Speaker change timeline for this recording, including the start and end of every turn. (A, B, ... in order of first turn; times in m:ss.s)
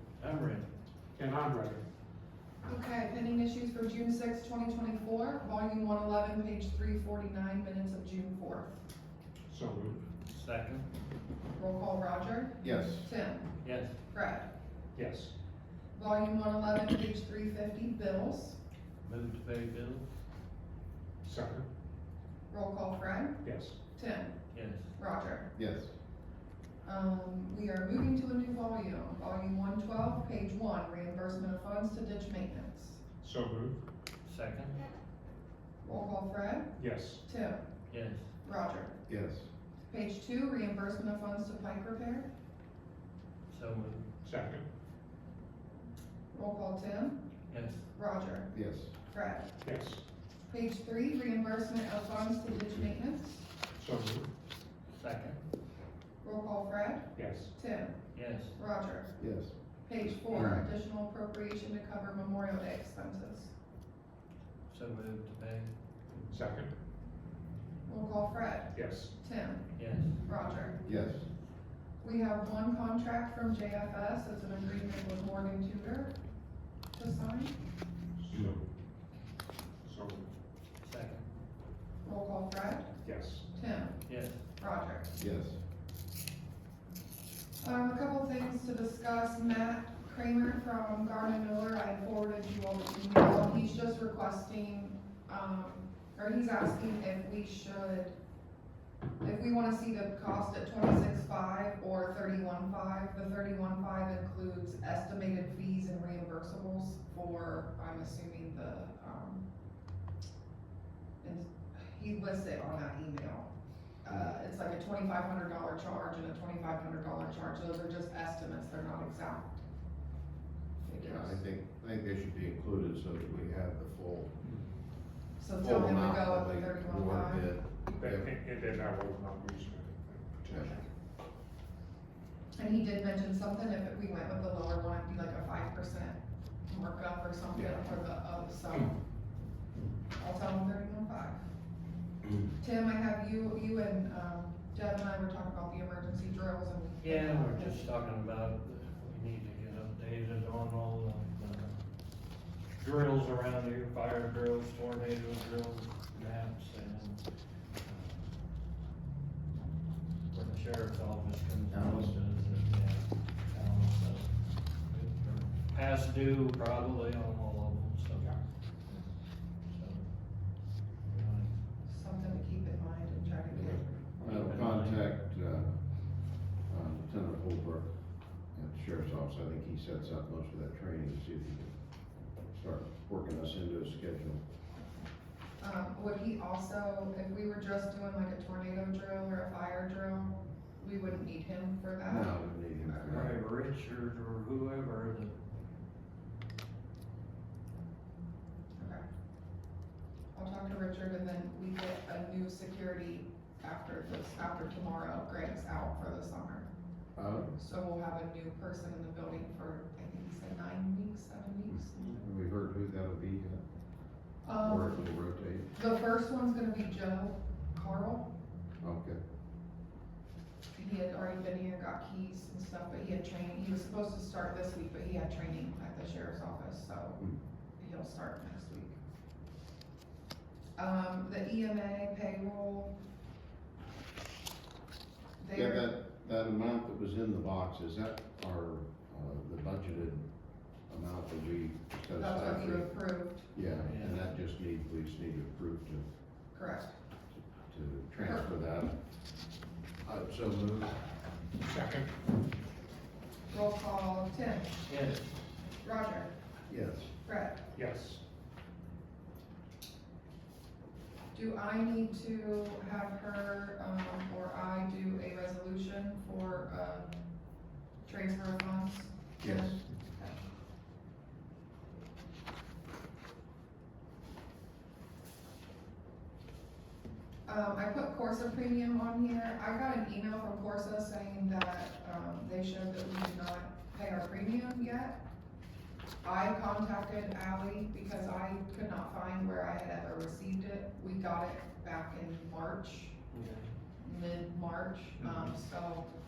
0:00.2-0:00.7 A
0:01.2-0:01.8 B
0:02.6-0:08.8 C
0:09.5-0:10.0 B
0:10.3-0:10.8 A
0:11.6-0:13.5 C
0:12.6-0:13.1 D
0:13.6-0:13.9 A
0:14.1-0:14.5 C
0:14.9-0:15.3 B
0:15.9-0:18.6 C
0:19.0-0:20.1 A
0:21.2-0:21.6 B
0:22.5-0:24.4 C
0:23.4-0:23.8 B
0:24.5-0:24.9 A
0:25.0-0:25.5 C
0:25.5-0:25.9 D
0:26.8-0:33.0 C
0:33.2-0:33.8 B
0:34.2-0:34.8 A
0:35.8-0:36.7 C
0:36.8-0:37.2 B
0:37.2-0:37.6 C
0:37.9-0:38.2 A
0:38.4-0:39.0 C
0:39.1-0:39.5 D
0:39.9-0:42.3 C
0:43.5-0:44.1 A
0:44.2-0:44.6 B
0:46.3-0:47.2 C
0:47.5-0:47.8 A
0:47.9-0:48.5 C
0:48.5-0:48.9 D
0:49.1-0:49.5 C
0:49.6-0:50.0 B
0:50.5-0:53.4 C
0:53.8-0:54.3 B
0:54.9-0:55.4 A
0:56.2-0:58.0 C
0:57.2-0:57.5 B
0:58.1-0:58.6 A
0:58.6-0:59.1 C
0:59.2-0:59.5 D
0:59.8-1:03.5 C
1:00.3-1:00.6 D
1:04.7-1:05.7 A
1:06.3-1:06.7 B
1:07.8-1:09.7 C
1:08.7-1:09.1 B
1:09.8-1:10.2 A
1:10.2-1:10.8 C
1:10.8-1:11.2 D
1:12.0-1:16.1 C
1:16.9-1:17.5 C
1:18.2-1:18.7 B
1:19.8-1:20.3 B
1:20.8-1:21.2 A
1:22.0-1:23.0 C
1:23.0-1:23.5 B
1:23.5-1:24.0 C
1:24.0-1:24.4 A
1:24.6-1:25.2 C
1:25.2-1:25.6 D
1:27.6-1:38.1 C
1:39.2-1:49.4 C
1:51.2-1:53.5 C
1:54.0-1:59.6 C
1:54.1-1:54.3 D
2:00.8-2:01.4 C
2:01.0-2:04.3 D
2:04.4-2:04.7 B
2:05.4-2:07.5 C
2:05.6-2:08.3 D
2:08.0-2:10.8 B
2:10.5-2:10.7 D
2:12.6-2:19.0 C
2:17.5-2:17.8 D
2:20.2-2:21.4 C
2:22.6-2:27.8 C
2:27.0-2:31.8 A
2:32.8-2:37.2 A
2:37.8-2:38.2 A
2:40.3-2:48.3 A
2:41.7-2:42.2 D
2:49.6-2:51.6 A
2:51.8-2:54.1 C
2:53.5-2:55.8 D
2:54.2-2:55.1 A
2:56.7-2:57.9 D
2:58.5-3:01.7 D
3:02.5-3:04.4 D
3:05.6-3:13.3 C
3:12.0-3:13.3 D
3:13.0-3:15.3 A
3:18.8-3:19.0 C
3:20.3-3:26.7 C
3:27.2-3:27.5 D
3:27.6-3:32.2 C
3:31.7-3:33.6 D
3:34.4-3:35.0 C
3:34.6-3:35.7 D
3:35.7-3:38.3 C
3:38.8-3:39.2 D
3:40.7-3:47.2 C
3:47.8-3:49.0 C
3:50.8-3:52.9 C
3:55.4-3:55.9 C
3:55.5-4:00.2 D
4:00.9-4:02.9 D
4:02.2-4:03.5 C
4:03.5-4:06.0 D
4:03.8-4:04.2 A
4:06.5-4:06.9 C
4:07.7-4:09.0 D
4:08.2-4:08.5 C
4:10.0-4:11.0 D
4:11.6-4:12.1 B
4:13.5-4:14.8 C
4:14.8-4:15.3 A
4:15.8-4:16.3 C
4:16.7-4:17.1 D
4:17.2-4:17.6 C
4:17.7-4:18.2 B
4:21.3-4:27.1 C
4:28.0-4:30.4 C
4:29.4-4:29.8 D
4:37.4-4:45.2 C
4:46.2-4:53.2 C
4:53.3-4:53.7 A
4:54.0-4:56.1 C
4:55.2-4:55.5 B